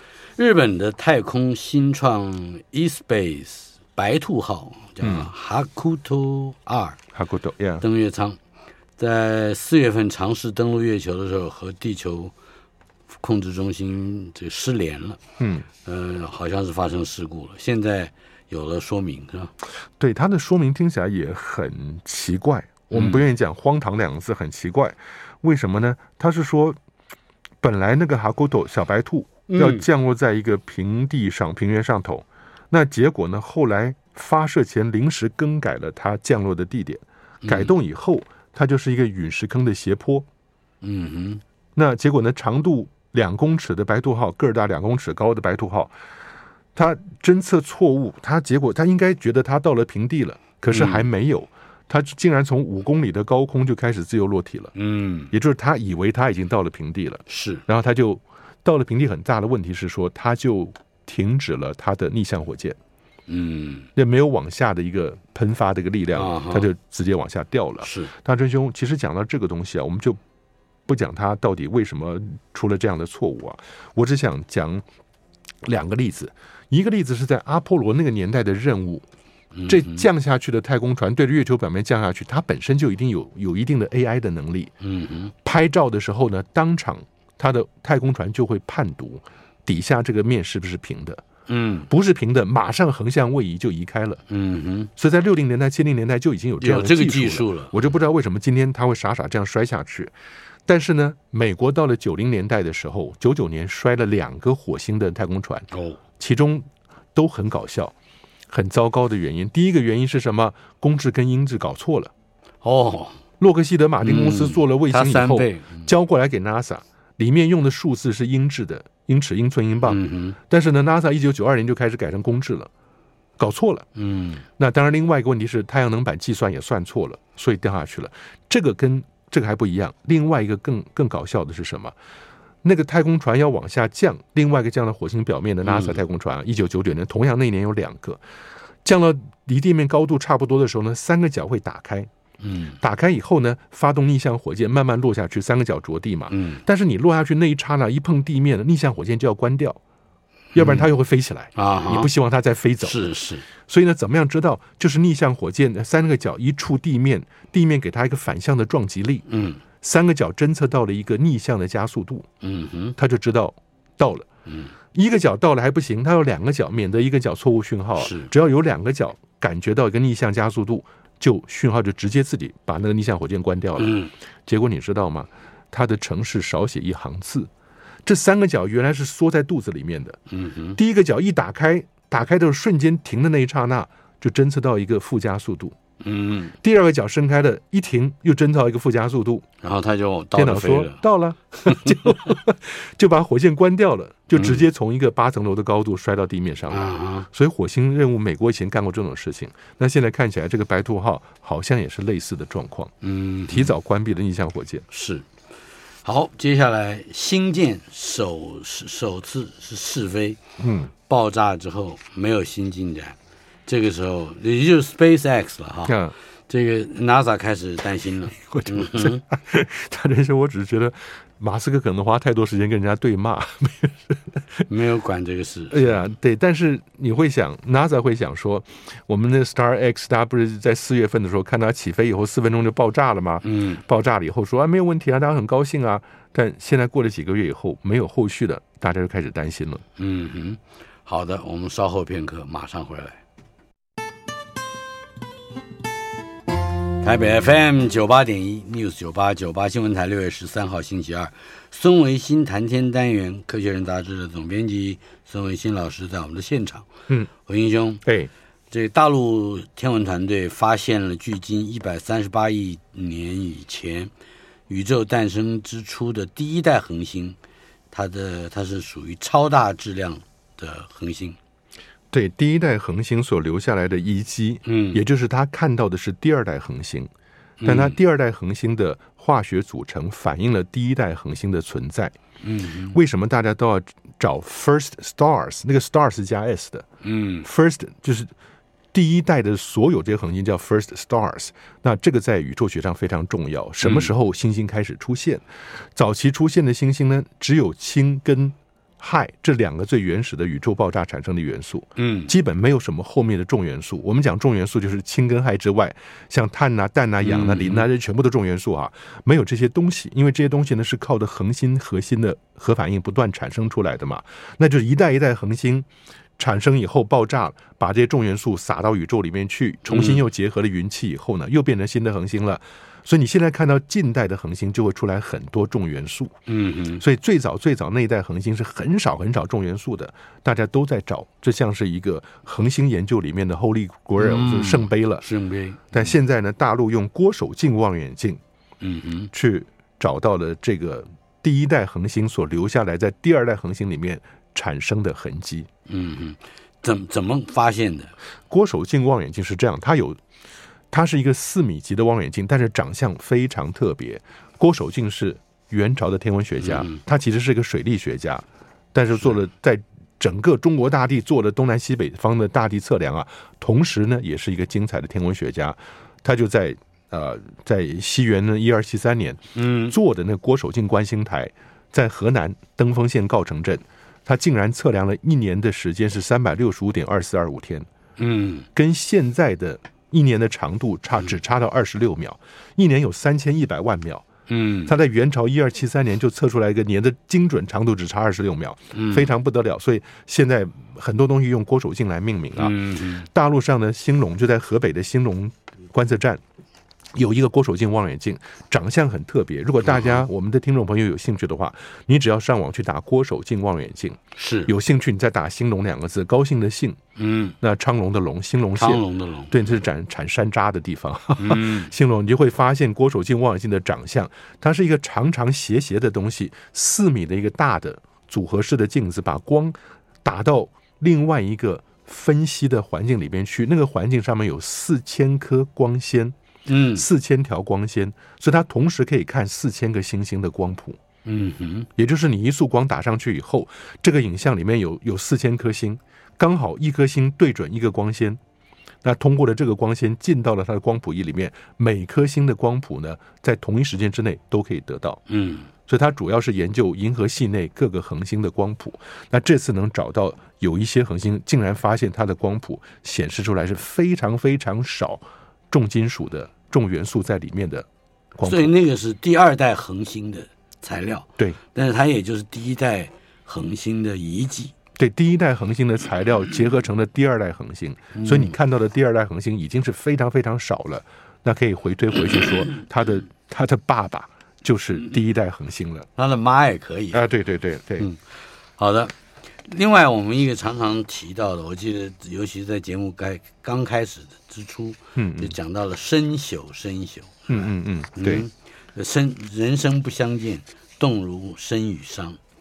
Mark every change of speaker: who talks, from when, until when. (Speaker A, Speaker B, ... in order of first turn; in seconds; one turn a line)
Speaker A: 0.4-7.0
Speaker B: 5.0-5.3
Speaker B: 7.1-7.8
Speaker A: 7.8-8.4
Speaker A: 9.0-12.3
Speaker A: 13.2-15.2
Speaker B: 15.4-15.7
Speaker A: 15.8-19.5
Speaker B: 20.0-26.8
Speaker A: 22.9-23.2
Speaker B: 27.6-40.3
Speaker A: 29.5-29.9
Speaker A: 37.4-37.7
Speaker A: 40.8-41.4
Speaker B: 41.8-45.9
Speaker B: 46.7-54.7
Speaker A: 50.7-51.1
Speaker A: 54.7-55.3
Speaker B: 55.3-62.8
Speaker A: 57.3-57.6
Speaker A: 63.3-63.9
Speaker B: 64.0-70.2
Speaker A: 66.1-66.7
Speaker A: 67.8-68.1
Speaker B: 70.9-74.8
Speaker B: 75.6-79.0
Speaker A: 79.5-80.1
Speaker B: 79.7-84.7
Speaker A: 84.8-85.3
Speaker B: 85.4-91.2
Speaker A: 91.5-91.9
Speaker B: 91.9-94.2
Speaker A: 94.3-94.9
Speaker B: 95.0-100.1
Speaker A: 96.6-97.8
Speaker B: 100.7-105.7
Speaker A: 105.7-106.0
Speaker B: 106.2-107.9
Speaker B: 108.5-112.1
Speaker A: 112.6-113.2
Speaker B: 113.4-122.7
Speaker A: 114.0-115.9
Speaker A: 119.8-120.4
Speaker B: 123.4-123.9
Speaker A: 124.0-124.4
Speaker B: 124.6-131.9
Speaker B: 132.6-138.2
Speaker A: 135.6-136.0
Speaker B: 138.8-142.1
Speaker A: 142.4-142.8
Speaker B: 142.8-149.8
Speaker A: 146.3-146.6
Speaker A: 150.6-150.9
Speaker B: 150.6-159.2
Speaker A: 151.6-152.1
Speaker A: 152.8-153.4
Speaker A: 159.3-159.6
Speaker B: 159.8-162.3
Speaker A: 162.4-162.9
Speaker B: 163.0-164.3
Speaker A: 164.4-164.7
Speaker B: 164.9-177.5
Speaker A: 168.0-168.3
Speaker A: 173.8-174.1
Speaker B: 178.1-180.2
Speaker A: 180.3-180.8
Speaker B: 180.8-185.8
Speaker A: 186.0-186.6
Speaker B: 186.6-189.4
Speaker A: 189.6-191.0
Speaker B: 190.3-202.9
Speaker A: 191.6-192.3
Speaker A: 194.3-194.6
Speaker A: 196.7-197.3
Speaker A: 203.0-203.7
Speaker B: 203.5-204.9
Speaker A: 204.9-205.3
Speaker A: 206.0-210.4
Speaker B: 210.6-210.9
Speaker A: 211.1-213.2
Speaker A: 213.7-219.2
Speaker B: 215.9-216.1
Speaker B: 218.3-224.7
Speaker A: 224.7-226.0
Speaker B: 225.7-239.8
Speaker A: 233.4-233.8
Speaker A: 240.0-243.2
Speaker A: 247.0-256.9
Speaker A: 257.4-258.0
Speaker B: 258.1-258.3
Speaker A: 258.7-264.1
Speaker A: 264.7-267.4
Speaker A: 267.9-271.4
Speaker B: 272.1-277.1
Speaker A: 274.6-275.0
Speaker A: 277.6-278.0
Speaker B: 277.6-282.1
Speaker A: 282.4-283.0
Speaker B: 282.9-286.9
Speaker A: 287.0-287.5
Speaker B: 287.4-288.3
Speaker B: 288.9-295.4
Speaker A: 293.8-294.1
Speaker B: 295.9-315.9
Speaker A: 301.9-302.3
Speaker A: 307.2-307.8
Speaker B: 316.4-326.4
Speaker A: 319.9-320.2
Speaker A: 326.5-327.0
Speaker B: 327.0-335.2
Speaker A: 334.2-336.1
Speaker B: 335.9-338.4
Speaker A: 338.8-339.3
Speaker B: 339.3-345.7
Speaker A: 345.9-348.1
Speaker B: 348.5-350.2
Speaker B: 350.9-377.9
Speaker A: 356.6-357.0
Speaker A: 369.6-369.9
Speaker A: 378.2-378.7
Speaker B: 378.7-384.2
Speaker A: 384.5-384.9
Speaker B: 384.9-396.4
Speaker A: 388.9-389.3
Speaker A: 392.6-393.3
Speaker B: 397.1-407.0
Speaker A: 399.8-400.2
Speaker A: 404.4-404.7
Speaker A: 407.1-407.6
Speaker B: 407.6-426.3
Speaker A: 408.8-409.7
Speaker A: 411.4-411.9
Speaker A: 426.7-427.1
Speaker B: 426.9-431.0
Speaker A: 431.2-431.9
Speaker B: 432.0-438.4
Speaker B: 439.0-445.2
Speaker A: 445.3-445.7
Speaker B: 445.9-458.7
Speaker A: 458.4-464.7
Speaker B: 465.0-476.1
Speaker A: 468.1-468.6
Speaker A: 476.1-477.2
Speaker B: 477.1-478.1
Speaker A: 478.8-492.4
Speaker B: 485.1-485.6
Speaker B: 487.5-488.5